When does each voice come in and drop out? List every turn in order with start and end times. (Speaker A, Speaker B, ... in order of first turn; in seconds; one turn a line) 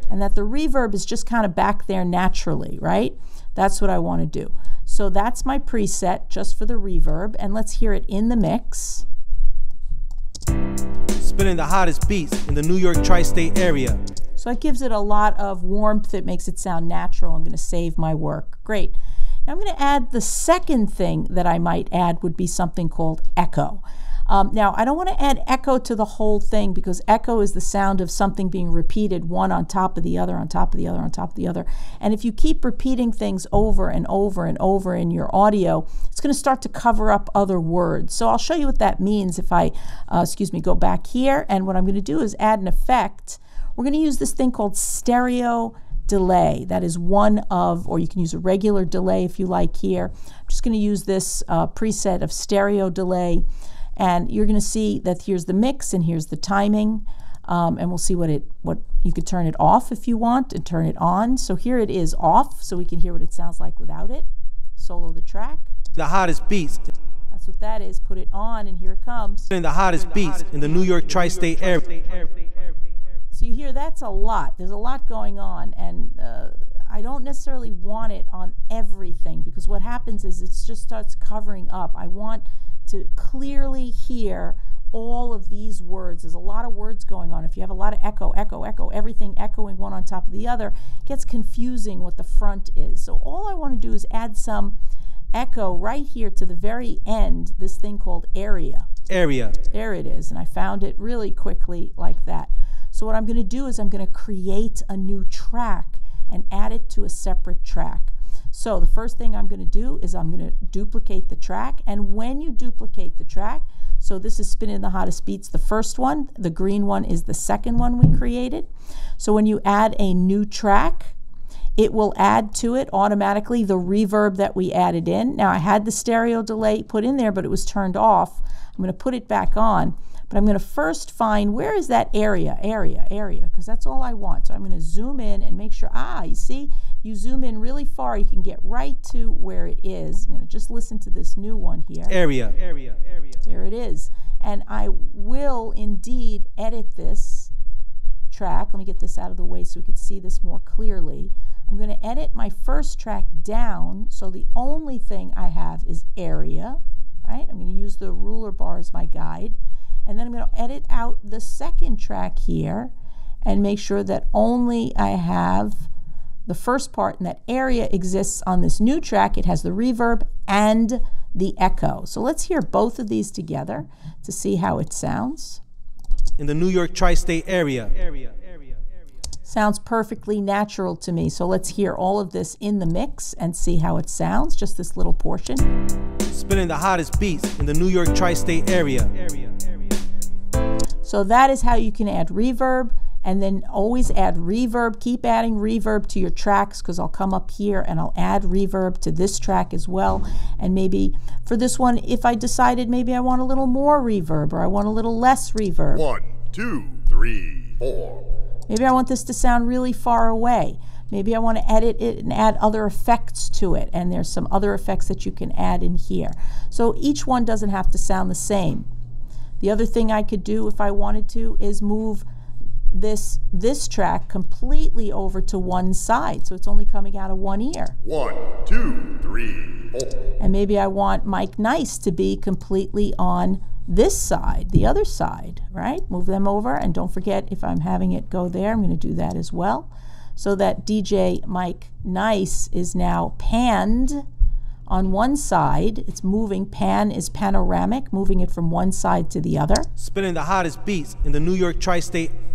Speaker A: 0.1-9.1
Speaker B: 11.2-14.0
Speaker A: 14.4-18.9
Speaker A: 19.5-53.5
Speaker A: 54.0-65.7
Speaker B: 66.0-66.9
Speaker A: 67.3-69.5
Speaker B: 69.5-72.7
Speaker A: 73.3-94.8
Speaker A: 95.3-98.9
Speaker B: 99.1-99.6
Speaker A: 99.6-121.2
Speaker A: 121.8-142.2
Speaker B: 142.1-143.0
Speaker A: 143.4-147.5
Speaker A: 148.3-165.9
Speaker A: 166.5-175.6
Speaker B: 176.4-178.7
Speaker A: 179.5-185.7
Speaker B: 186.3-189.8
Speaker A: 191.0-206.1
Speaker C: 206.0-208.2
Speaker A: 208.7-218.9
Speaker A: 219.6-222.2
Speaker A: 222.9-228.0
Speaker C: 228.0-230.1
Speaker A: 230.4-244.2
Speaker A: 244.9-249.9
Speaker B: 250.0-252.3